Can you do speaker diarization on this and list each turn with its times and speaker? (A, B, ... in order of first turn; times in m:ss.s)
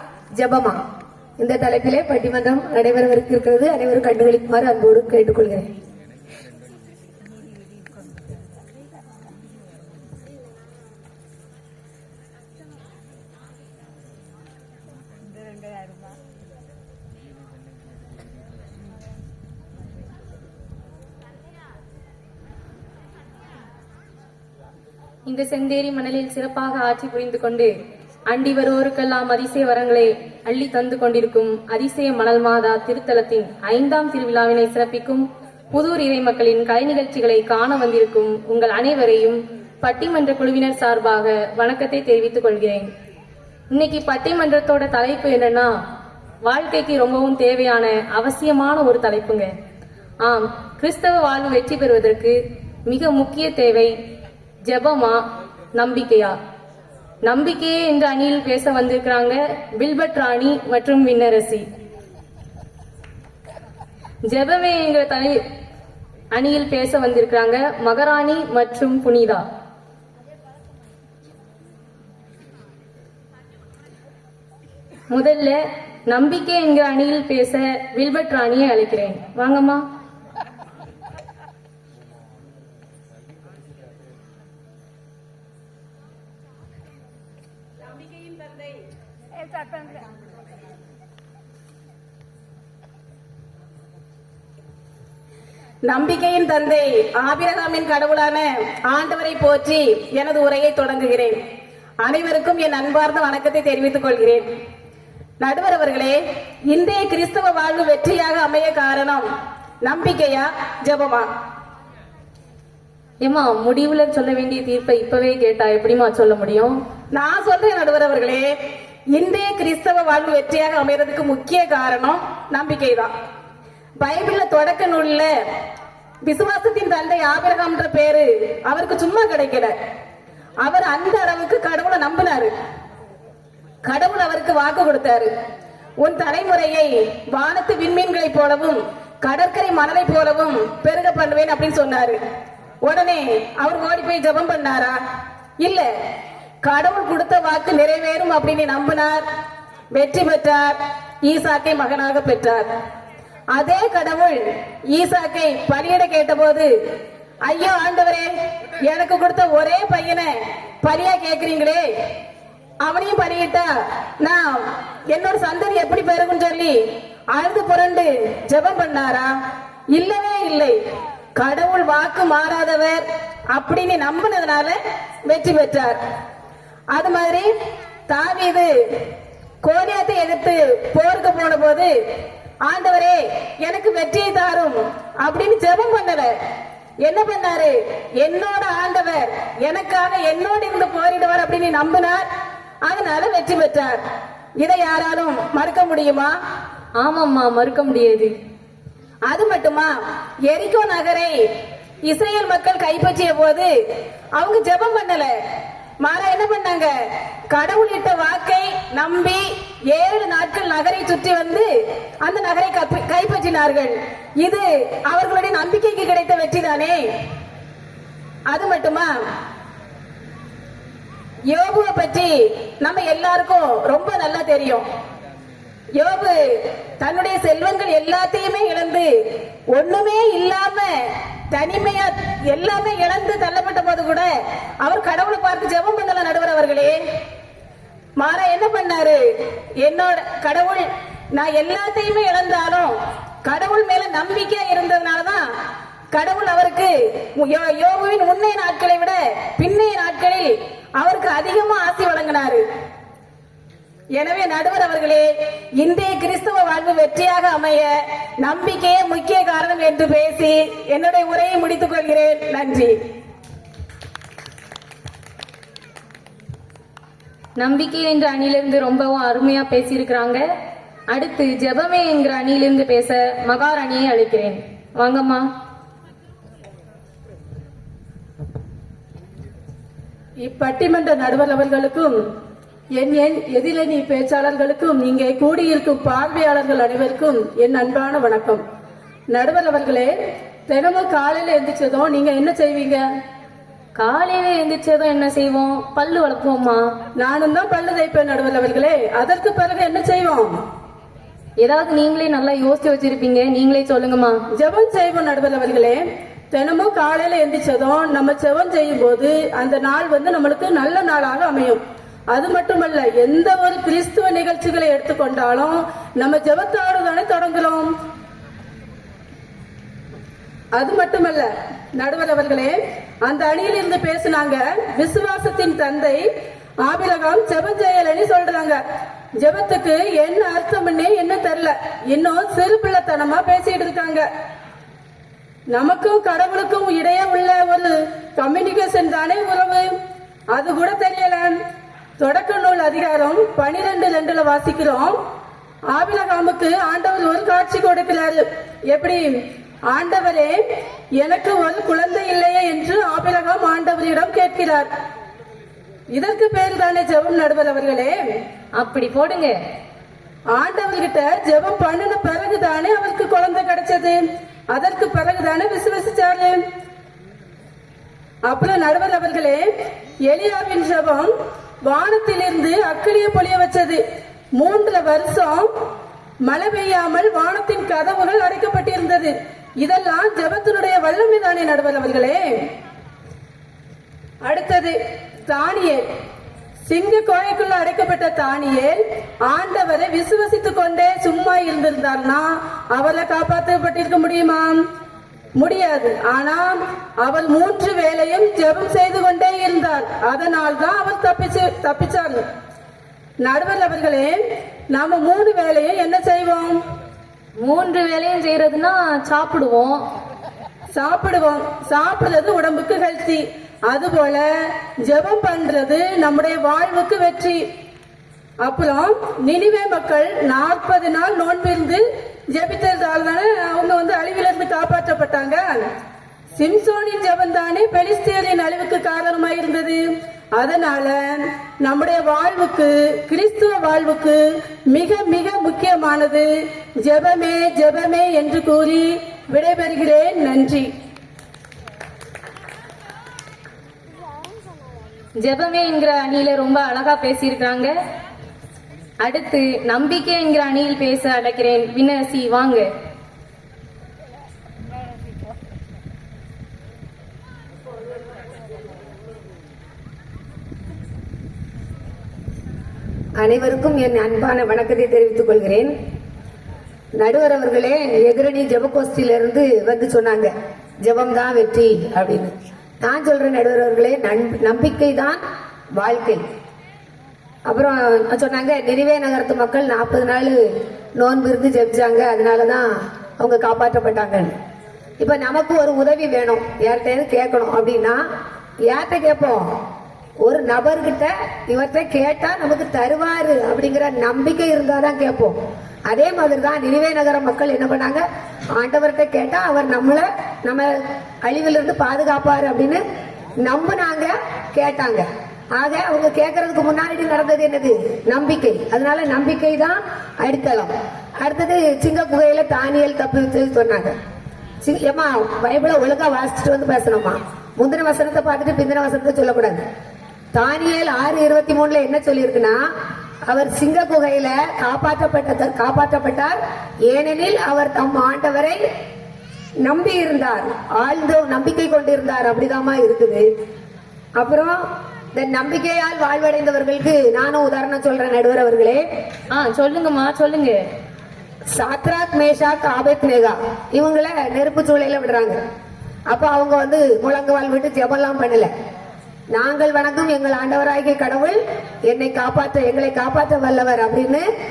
0:00.4-0:00.8 A
0:01.4-0:05.7 A
0:25.2-0:42.9 B
0:43.7-0:45.7 B
0:46.4-0:49.5 B
0:50.2-0:53.9 B
0:54.6-0:55.2 B
0:55.7-0:56.4 B
0:57.2-1:01.7 B
1:04.2-1:05.4 B
1:06.3-1:09.4 B
1:15.1-1:19.8 B
1:28.0-1:28.7 C
1:35.8-1:41.4 C
1:42.0-1:44.5 C
1:45.4-1:46.2 C
1:46.7-1:49.2 C
1:49.8-1:51.3 C
1:53.2-1:56.8 B
1:57.1-1:58.5 C
1:59.2-2:03.1 C
2:04.0-2:05.3 C
2:06.2-2:09.7 C
2:10.6-2:12.5 C
2:13.8-2:15.3 C
2:16.0-2:22.2 C
2:22.8-2:25.0 C
2:25.6-2:25.9 C
2:26.6-2:29.2 C
2:29.9-2:32.7 C
2:33.5-2:34.4 C
2:34.9-2:36.7 C
2:37.4-2:38.3 C
2:38.8-2:40.3 C
2:40.8-2:41.8 C
2:42.8-2:43.6 C
2:44.2-2:46.8 C
2:47.3-2:49.3 C
2:49.9-2:50.8 C
2:51.4-2:56.0 C
2:56.9-2:57.5 C
2:58.1-2:58.7 C
2:59.6-3:01.9 C
3:02.6-3:06.3 C
3:07.0-3:12.3 C
3:12.8-3:14.0 C
3:14.6-3:16.3 C
3:17.0-3:18.3 B
3:19.3-3:19.9 C
3:20.5-3:21.3 C
3:22.0-3:23.7 C
3:24.4-3:25.3 C
3:26.0-3:26.9 C
3:27.5-3:31.7 C
3:32.2-3:37.0 C
3:38.5-3:39.1 C
3:41.5-3:44.8 C
3:46.0-3:46.4 C
3:47.0-3:49.1 C
3:49.7-3:50.9 C
3:51.5-3:54.3 C
3:54.8-3:57.0 C
3:58.2-3:59.2 C
3:59.8-4:02.9 C
4:03.4-4:05.4 C
4:06.1-4:12.6 C
4:14.2-4:15.3 C
4:15.8-4:23.0 C
4:27.6-4:30.4 B
4:31.1-4:35.4 B
4:40.4-4:42.2 D
4:42.9-4:48.6 D
4:49.3-4:50.1 D
4:50.7-4:53.0 D
4:54.0-4:56.8 B
4:57.2-5:00.6 D
5:01.6-5:04.4 B
5:04.5-5:17.9 D
5:20.7-5:26.2 D
5:26.8-5:28.8 D
5:29.4-5:34.3 D
5:35.7-5:39.9 D
5:40.5-5:41.6 D
5:42.2-5:45.2 D
5:45.9-5:49.2 D
5:49.9-5:50.6 D
5:51.2-5:54.9 D
5:56.1-5:58.2 D
5:58.8-5:59.5 B
6:00.5-6:06.6 D
6:08.4-6:09.6 D
6:10.3-6:11.3 D
6:11.8-6:14.0 D
6:14.5-6:15.7 D
6:16.4-6:22.4 D
6:24.4-6:25.0 D
6:25.5-6:26.0 D
6:26.8-6:34.8 D
6:35.6-6:42.4 D
6:43.4-6:44.4 D
6:44.9-6:46.8 D
6:47.6-6:50.0 B
6:50.9-6:57.6 D
6:58.6-7:05.8 D
7:06.6-7:10.0 D
7:10.5-7:16.5 D
7:17.0-7:20.9 D
7:25.4-7:27.9 B
7:29.2-7:32.8 B
7:43.4-7:45.9 A
7:47.2-7:50.5 A
7:51.0-7:52.5 A
7:53.0-7:55.4 A
7:56.0-7:56.4 A
7:57.7-8:00.6 A
8:01.2-8:04.5 A
8:05.2-8:08.2 A
8:08.9-8:09.7 A
8:10.4-8:18.2 A
8:18.7-8:23.0 A
8:23.6-8:34.1 A
8:34.8-8:39.8 A
8:40.5-8:42.8 A
8:43.5-8:48.8 A
8:49.8-8:53.4 A
8:54.4-8:54.8 A
8:55.3-8:59.0 A
8:59.5-9:00.8 B
9:01.7-9:05.6 A
9:06.3-9:08.7 A
9:09.5-9:14.4 A